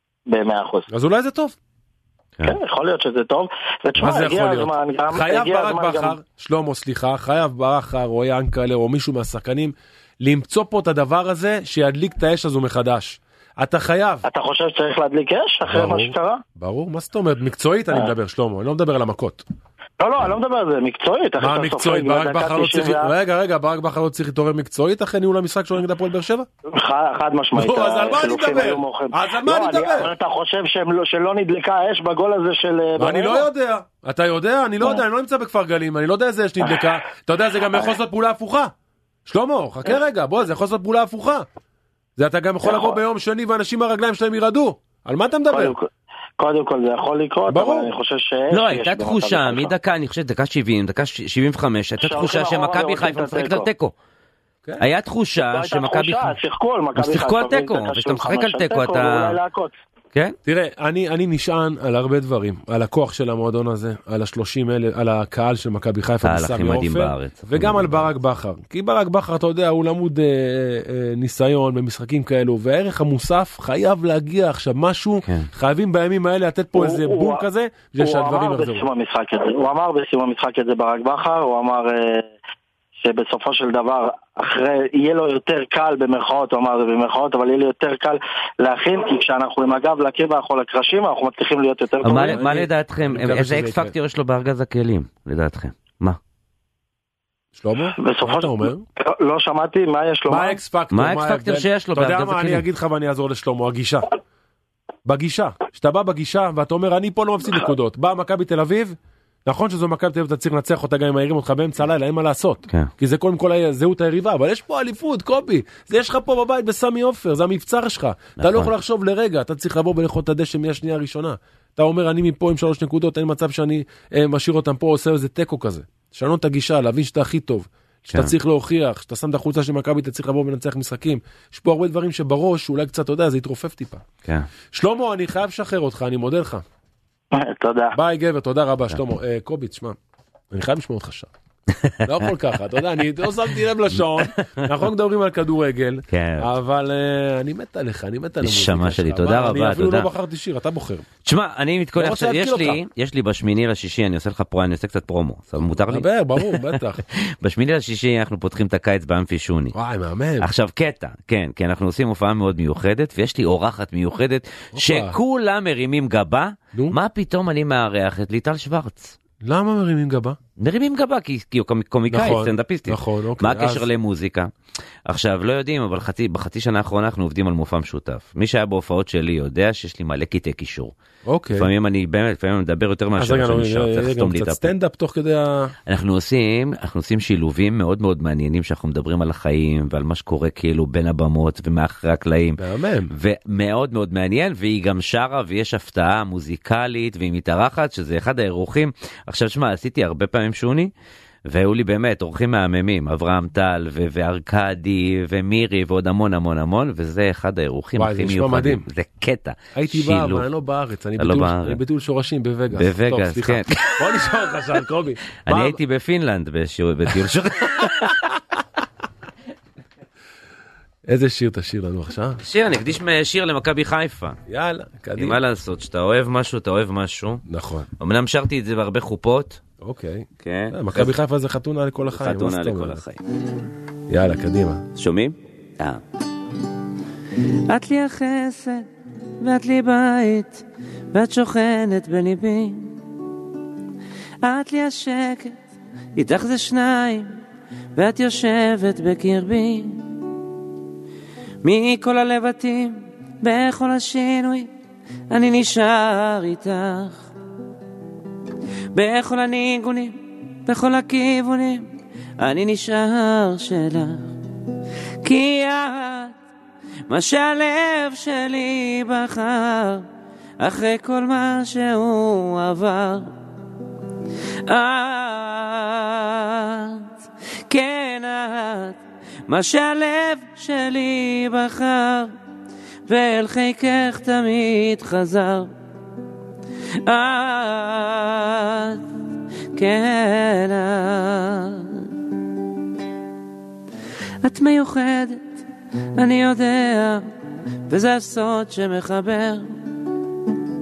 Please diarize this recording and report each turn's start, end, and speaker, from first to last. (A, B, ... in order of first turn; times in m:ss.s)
0:00.3-0:00.9 A
0:00.9-0:01.6 B
0:02.4-0:06.2 A
0:04.0-0:14.2 B
0:14.3-0:16.4 A
0:15.7-0:19.4 B
0:20.0-0:23.1 A
0:21.4-0:26.5 B
0:26.7-0:33.4 A
0:27.6-0:30.1 B
0:33.0-0:38.7 B
0:39.3-0:41.4 B
0:42.2-0:45.8 B
0:42.6-0:43.0 A
0:45.5-0:45.9 A
0:46.4-0:49.7 A
0:47.5-0:47.9 B
0:48.5-0:53.9 C
0:52.0-0:53.7 A
0:54.8-0:56.4 C
0:55.5-0:59.8 A
0:57.0-0:59.4 C
1:00.4-1:18.9 B
1:06.2-1:08.0 C
1:16.8-1:17.4 A
1:18.0-1:22.3 A
1:23.0-1:32.6 A
1:32.0-1:36.2 C
1:32.2-1:33.9 B
1:37.6-1:38.9 B
1:38.0-1:40.6 A
1:40.3-1:44.1 B
1:40.9-1:42.6 C
1:45.0-2:14.0 B
1:58.4-1:58.7 C
2:14.7-2:16.6 B
2:17.3-2:18.0 A
2:17.9-2:20.0 B
2:20.5-2:21.3 B
2:22.0-2:31.1 B
2:24.2-2:24.6 C
2:26.1-2:26.5 C
2:28.4-2:30.1 C
2:31.2-2:36.8 C
2:32.0-2:32.8 B
2:35.7-2:37.0 B
2:37.3-2:39.7 C
2:39.7-2:40.5 B
2:40.4-2:49.2 C
2:44.7-2:45.2 B
2:49.4-2:50.4 B
2:50.6-2:54.5 C
2:52.1-2:53.9 B
2:55.1-3:00.9 C
3:01.3-3:01.7 B
3:01.6-3:04.7 C
3:03.2-3:05.7 B
3:05.9-3:20.9 C
3:12.6-3:13.1 B
3:21.5-3:30.4 C
3:28.0-3:28.8 B
3:29.8-3:35.8 B
3:31.2-3:31.8 C
3:32.8-3:34.2 C
3:35.4-3:38.2 C
3:41.1-3:42.4 B
3:42.4-3:44.4 C
3:44.5-3:45.4 B
3:45.2-3:47.4 C
3:47.5-3:47.9 B
3:48.0-3:49.6 C
3:49.8-3:53.0 B
3:50.4-3:51.1 C
3:52.1-3:53.2 C
3:54.1-3:54.8 B
3:55.0-3:56.0 C
3:57.7-3:58.9 C
3:59.4-4:02.9 C
4:04.4-4:05.6 C
4:06.2-4:07.4 C
4:07.9-4:10.0 C
4:11.6-4:14.7 C
4:15.3-4:17.3 C
4:18.9-4:21.9 C
4:22.4-4:24.3 C
4:25.2-4:26.4 C
4:27.1-4:30.1 C
4:30.6-4:33.3 C
4:34.6-4:37.1 C
4:37.7-4:42.3 C
4:43.1-4:45.7 C
4:47.0-4:49.0 C
4:49.8-4:52.1 C
4:54.4-4:55.6 C
4:56.2-4:57.3 C
4:57.9-4:59.8 C